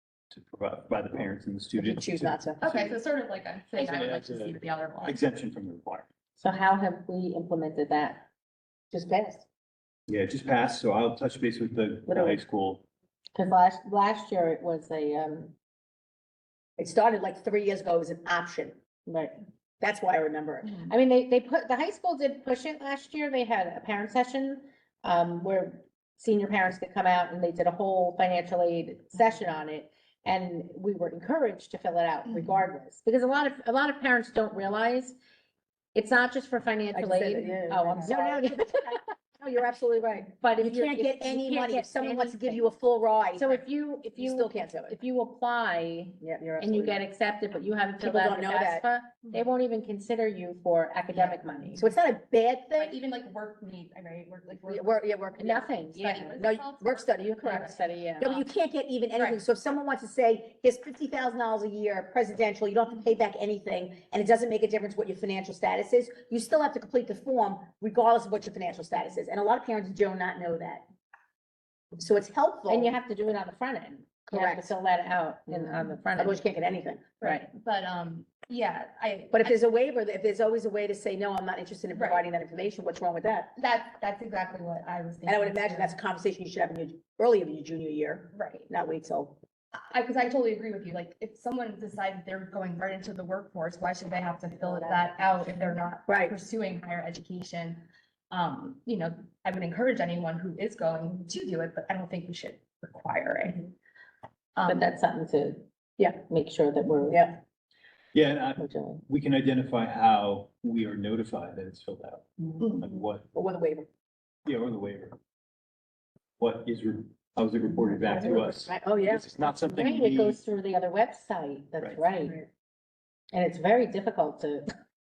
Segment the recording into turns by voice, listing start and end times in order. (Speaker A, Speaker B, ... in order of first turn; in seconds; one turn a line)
Speaker A: 0.3-3.0
Speaker B: 1.8-2.6
Speaker C: 2.6-5.2
Speaker A: 3.8-6.1
Speaker D: 6.4-8.2
Speaker B: 8.9-9.4
Speaker A: 10.1-12.8
Speaker B: 12.1-12.4
Speaker D: 13.3-15.5
Speaker B: 16.8-18.8
Speaker D: 19.1-19.4
Speaker B: 19.8-20.9
Speaker D: 20.8-35.2
Speaker C: 32.3-32.6
Speaker D: 35.9-39.0
Speaker B: 36.9-45.0
Speaker D: 40.4-42.7
Speaker D: 43.4-51.9
Speaker B: 46.2-47.0
Speaker B: 48.0-48.9
Speaker B: 51.7-53.0
Speaker C: 52.8-57.7
Speaker B: 54.5-55.7
Speaker D: 55.4-56.4
Speaker B: 56.4-70.8
Speaker D: 57.4-58.4
Speaker C: 59.1-59.4
Speaker B: 72.0-72.9
Speaker D: 72.7-76.4
Speaker B: 74.3-74.7
Speaker B: 75.5-77.3
Speaker C: 77.2-79.5
Speaker B: 79.3-83.5
Speaker C: 81.9-82.3
Speaker C: 83.5-86.0
Speaker B: 85.2-89.4
Speaker C: 88.3-88.7
Speaker C: 89.9-103.7
Speaker B: 96.1-96.3
Speaker C: 104.5-104.8
Speaker D: 104.6-107.3
Speaker B: 107.1-107.4
Speaker A: 108.1-113.2
Speaker D: 108.6-109.0
Speaker C: 112.6-112.8
Speaker B: 113.3-113.9
Speaker A: 114.5-115.2
Speaker A: 116.4-120.4
Speaker B: 118.1-119.2
Speaker D: 119.3-122.4
Speaker D: 123.3-124.7